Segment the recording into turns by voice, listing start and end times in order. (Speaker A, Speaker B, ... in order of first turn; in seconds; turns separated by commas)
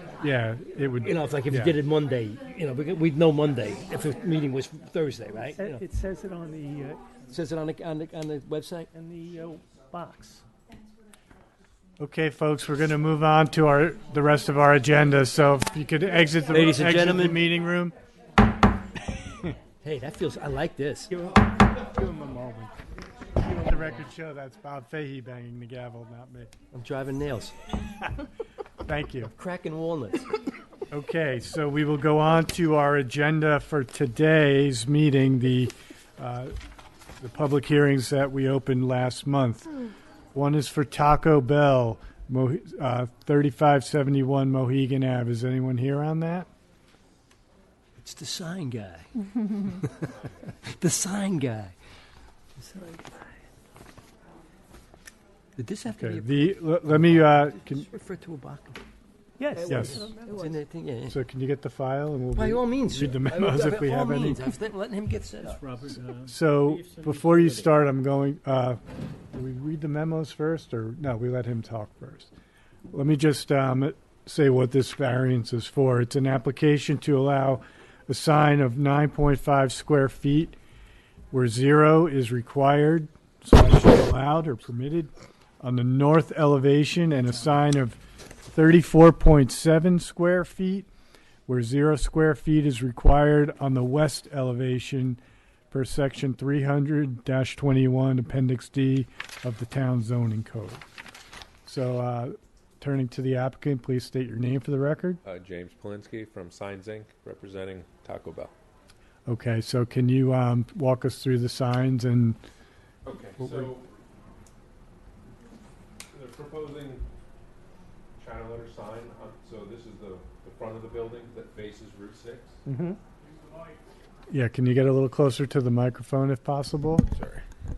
Speaker A: 0.2-1.8, Speaker B: 1.0-5.8, Speaker C: 5.5-7.2, Speaker B: 7.3-8.9, Speaker C: 8.9-10.4, Speaker A: 12.0-18.0, Speaker B: 16.5-17.4, Speaker B: 19.8-21.1, Speaker C: 21.1-22.8, Speaker C: 23.4-24.0, Speaker A: 23.6-26.5, Speaker B: 26.7-27.6, Speaker A: 28.8-29.3, Speaker B: 29.3-30.3, Speaker A: 30.9-36.5, Speaker A: 37.2-39.7, Speaker A: 40.3-46.5, Speaker B: 48.0-51.7, Speaker B: 52.6-52.9, Speaker C: 52.8-53.1, Speaker B: 55.6-58.8, Speaker A: 56.0-57.9, Speaker C: 59.4-60.4, Speaker B: 59.6-61.2, Speaker A: 59.6-60.1, Speaker A: 61.1-64.5, Speaker B: 62.3-65.6, Speaker D: 65.4-67.8, Speaker A: 66.3-68.8, Speaker A: 69.3-72.3, Speaker A: 72.9-80.5, Speaker A: 81.3-90.9, Speaker A: 91.5-95.2, Speaker A: 95.7-100.8, Speaker A: 101.7-105.2, Speaker E: 105.2-108.5, Speaker A: 109.3-112.4, Speaker E: 113.0-113.9, Speaker E: 116.1-117.0, Speaker E: 118.2-122.6, Speaker C: 122.7-123.0, Speaker A: 124.3-127.0, Speaker E: 127.1-127.4